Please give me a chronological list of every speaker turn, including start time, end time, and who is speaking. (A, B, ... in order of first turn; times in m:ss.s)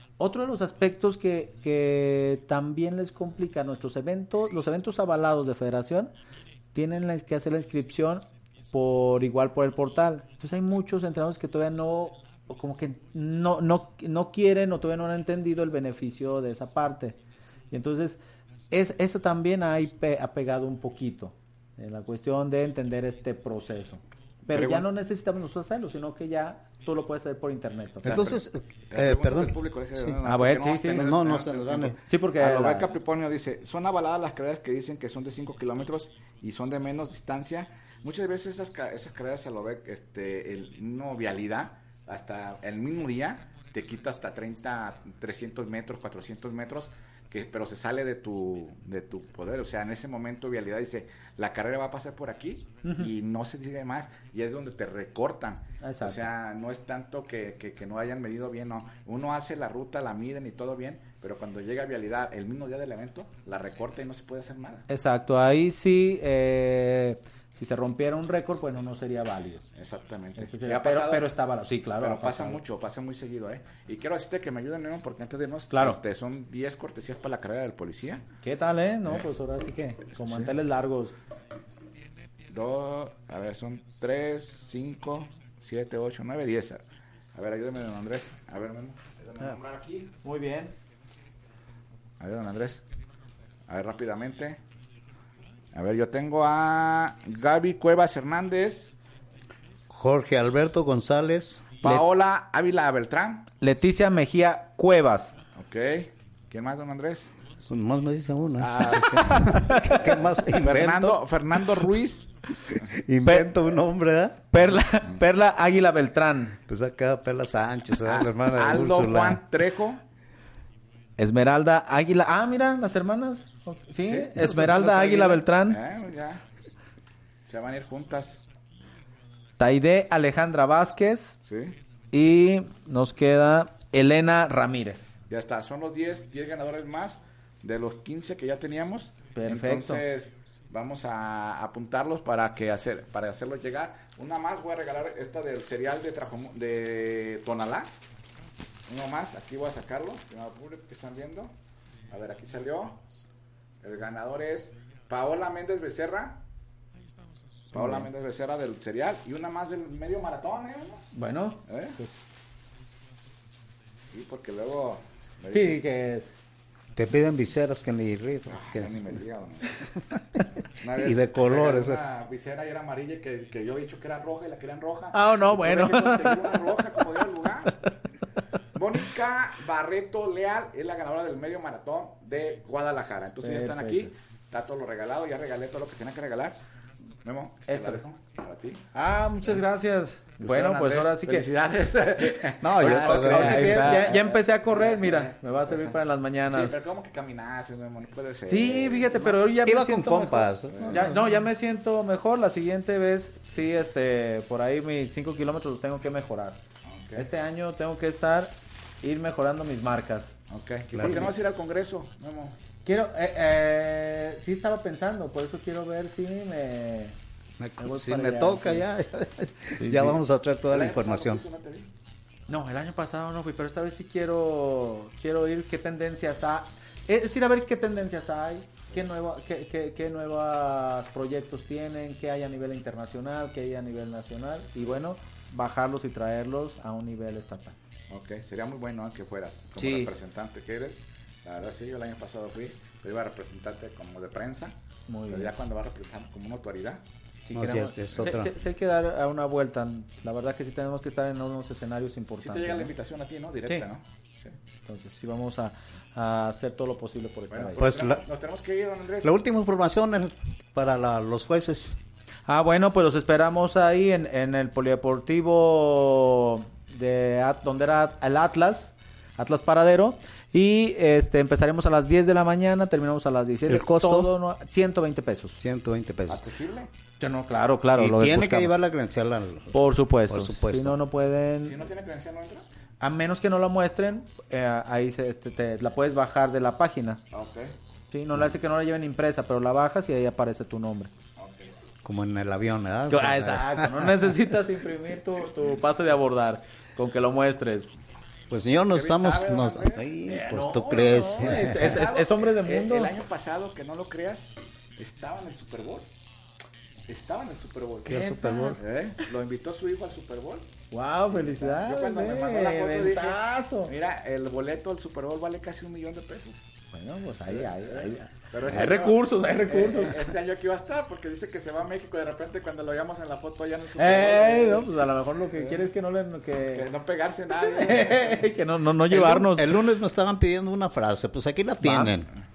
0:00.2-0:06.1 A
0:06.7-0:17.2 A
0:17.7-0:28.1 A
0:24.5-0:24.8 B
0:28.0-1:04.9 B
0:28.1-0:30.2 C
0:30.2-0:31.1 A
0:30.9-0:32.0 C
0:32.0-0:32.9 A
0:55.8-0:56.3 A
1:04.9-1:09.7 A
1:09.8-1:11.3 B
1:10.4-1:12.6 A
1:12.0-1:18.3 B
1:15.7-1:16.0 A
1:18.4-1:21.2 A
1:20.2-1:20.5 B
1:22.5-1:26.8 B
1:27.3-1:30.1 B
1:30.2-1:30.8 A
1:32.2-1:32.8 B
1:33.7-1:34.6 B
1:35.7-1:38.9 B
1:39.9-1:41.7 C
1:41.8-1:43.5 B
1:43.6-1:45.4 A
1:45.6-1:47.3 B
1:47.7-1:51.8 C
1:48.6-1:52.9 B
1:49.2-1:50.1 A
1:52.6-1:54.5 C
1:54.5-1:56.6 A
1:56.7-1:59.4 C
1:58.0-2:00.0 B
2:01.2-2:05.8 A
2:04.3-2:05.2 C
2:04.8-2:06.4 B
2:07.5-2:08.4 B
2:09.6-2:11.4 A
2:11.5-2:11.8 B
2:12.1-2:15.1 A
2:15.3-2:27.9 B
2:19.4-2:20.0 A
2:28.9-2:31.5 B
2:32.1-2:33.0 B
2:33.8-2:36.4 B
2:37.7-2:41.1 B
2:37.8-2:38.0 A
2:41.1-2:42.1 A
2:41.7-2:42.0 B
2:44.1-2:45.8 B
2:45.5-2:46.3 A
2:47.0-2:48.9 C
2:48.5-2:49.8 B
2:50.8-2:57.8 B
2:50.9-2:52.0 C
2:55.1-2:57.0 A
2:58.7-3:06.6 B
3:03.4-3:04.1 A
3:07.2-3:08.8 B
3:07.7-3:08.0 A
3:08.9-3:11.5 A
3:10.4-3:19.2 B
3:12.6-3:14.1 C
3:12.8-3:16.8 A
3:18.5-3:26.6 A
3:19.6-3:21.2 C
3:20.7-3:21.2 B
3:26.8-3:27.3 B
3:27.2-3:30.3 A
3:30.5-3:32.6 B
3:30.9-3:31.3 C
3:31.0-3:31.3 A
3:32.8-3:37.2 A
3:37.6-3:41.4 C
3:37.8-3:38.8 A
3:39.8-3:40.2 A
3:40.7-3:41.9 B
3:42.5-3:57.8 A
3:58.1-4:04.8 B
3:59.8-4:00.1 A
4:05.1-4:05.5 A
4:05.3-4:07.0 B
4:07.5-4:12.9 A
4:07.5-4:08.5 C
4:12.4-4:14.6 B
4:14.8-4:17.9 A
4:17.5-4:19.3 B
4:17.8-4:18.2 C
4:19.2-4:22.0 C
4:22.5-4:35.6 A
4:33.7-4:34.3 C
4:35.6-4:36.5 C
4:36.3-4:36.9 B
4:37.2-4:38.8 A
4:38.0-4:41.0 C
4:39.7-4:41.8 A
4:41.6-4:42.7 B
4:43.0-4:47.2 A
4:47.3-4:47.8 B
4:48.1-4:51.1 A
4:51.4-4:51.8 B
4:52.0-4:54.4 C
4:53.1-4:57.9 A
4:58.5-5:02.0 C
4:58.9-5:00.1 B
5:00.3-5:03.2 A
5:01.4-5:06.1 B
5:07.1-5:10.7 B
5:08.0-5:08.8 C
5:08.1-5:08.8 A
5:10.9-5:13.9 A
5:11.3-5:16.7 B
5:16.9-5:20.3 A
5:17.5-5:24.9 B
5:24.0-5:26.9 A
5:25.5-5:25.9 B
5:26.7-5:28.4 B
5:27.5-5:29.8 A
5:29.1-5:32.3 C
5:31.8-5:32.1 A